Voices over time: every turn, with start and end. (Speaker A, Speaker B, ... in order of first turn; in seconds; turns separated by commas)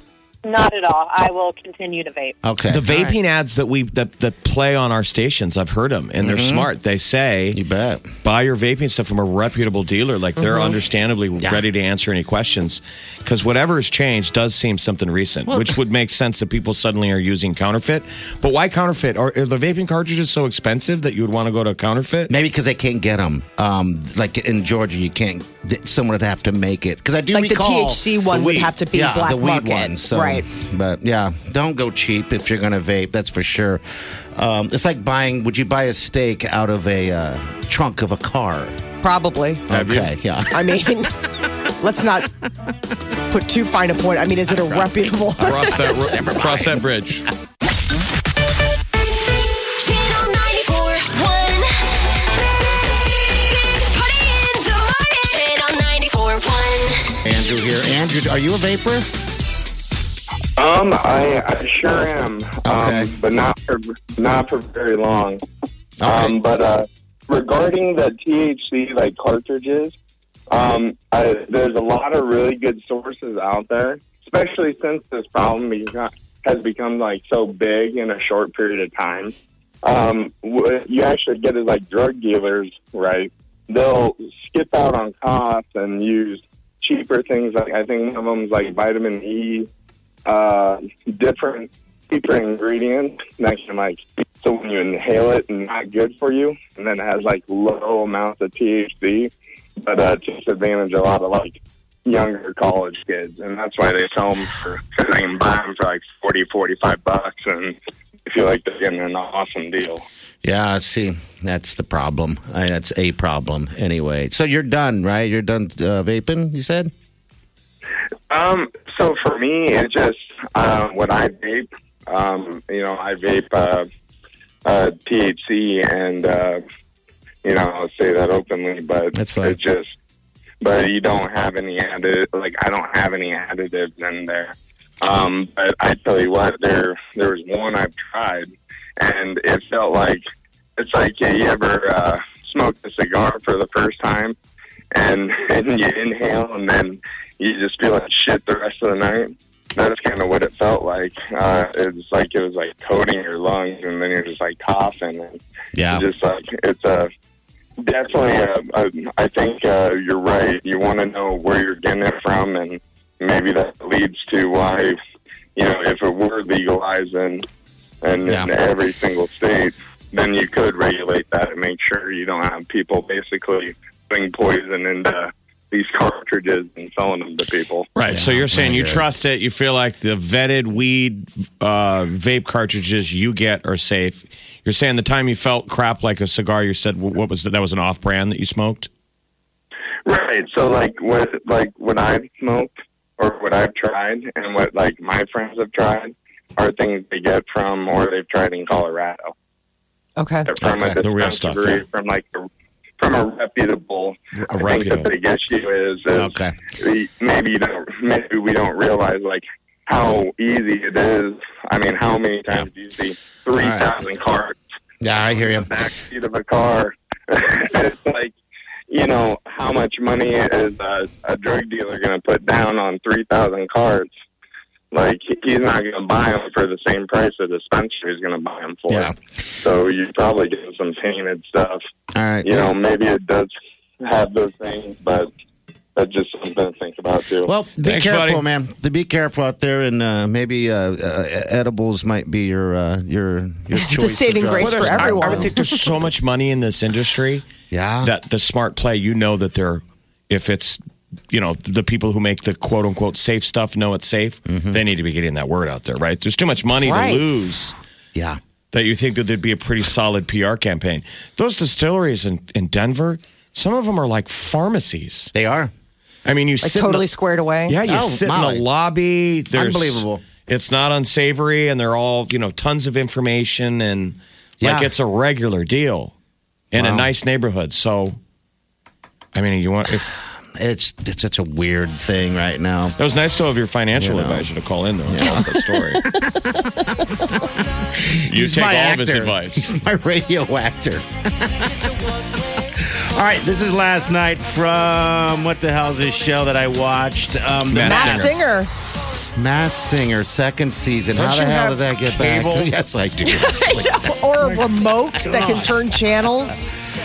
Speaker A: 0.4-2.4, Speaker B: 2.4-3.2, Speaker C: 2.7-7.6, Speaker B: 6.2-6.7, Speaker B: 7.5-8.1, Speaker C: 8.2-22.3, Speaker D: 10.4-10.7, Speaker B: 15.5-15.8, Speaker B: 22.3-28.1, Speaker D: 27.3-30.4, Speaker C: 28.3-28.7, Speaker B: 28.9-38.8, Speaker D: 39.0-39.6, Speaker B: 39.7-40.7, Speaker C: 39.7-40.1, Speaker D: 40.5-41.1, Speaker D: 41.8-42.3, Speaker D: 43.3-46.0, Speaker C: 45.4-47.3, Speaker B: 46.1-46.8, Speaker E: 49.8-51.6, Speaker E: 53.6-57.0, Speaker B: 57.2-59.1, Speaker F: 60.6-65.4, Speaker B: 62.6-63.1, Speaker B: 66.0-66.3, Speaker F: 66.0-69.9, Speaker F: 70.5-89.7, Speaker F: 90.2-107.7, Speaker F: 108.2-110.0, Speaker B: 110.4-116.9, Speaker F: 118.3-123.9, Speaker F: 124.6-126.6, Speaker F: 127.4-129.9, Speaker B: 129.1-129.6, Speaker F: 130.6-140.2, Speaker F: 140.8-144.3, Speaker F: 144.9-157.1, Speaker B: 155.7-156.0, Speaker F: 157.8-165.0, Speaker F: 165.6-167.4, Speaker F: 168.0-177.9, Speaker C: 177.9-188.9, Speaker B: 178.1-179.0, Speaker F: 190.1-199.3, Speaker D: 200.2-200.5, Speaker F: 200.4-202.5, Speaker B: 200.6-201.0, Speaker C: 201.0-201.8, Speaker F: 203.0-214.6, Speaker C: 204.5-205.1, Speaker B: 206.1-206.6, Speaker B: 213.6-213.9, Speaker B: 215.0-215.7, Speaker F: 215.4-218.3, Speaker F: 218.9-224.1, Speaker F: 224.9-231.8, Speaker B: 228.9-229.1, Speaker B: 232.1-232.7, Speaker F: 232.4-233.5, Speaker F: 234.0-235.3, Speaker F: 235.9-237.5, Speaker B: 237.4-245.8, Speaker C: 237.8-238.4, Speaker D: 243.8-245.6, Speaker C: 244.6-247.4, Speaker B: 247.7-248.1, Speaker C: 248.0-250.8, Speaker C: 251.3-257.7, Speaker B: 254.5-254.8, Speaker D: 256.8-257.2, Speaker B: 258.1-258.4, Speaker C: 258.7-265.3, Speaker B: 265.3-265.7, Speaker C: 266.2-267.1, Speaker D: 266.6-267.8, Speaker C: 267.7-276.1, Speaker B: 267.8-268.6, Speaker B: 269.5-270.2, Speaker B: 274.6-274.9, Speaker C: 276.7-278.2, Speaker B: 276.7-277.1, Speaker C: 279.3-280.1, Speaker B: 280.5-283.0, Speaker C: 283.0-286.0, Speaker B: 283.9-284.5, Speaker B: 285.1-286.9, Speaker B: 287.9-291.9, Speaker C: 288.2-289.7, Speaker B: 292.5-298.3, Speaker C: 297.7-298.4, Speaker D: 297.8-298.7, Speaker B: 299.4-306.0, Speaker D: 301.2-301.7, Speaker C: 301.4-302.7, Speaker D: 303.2-306.7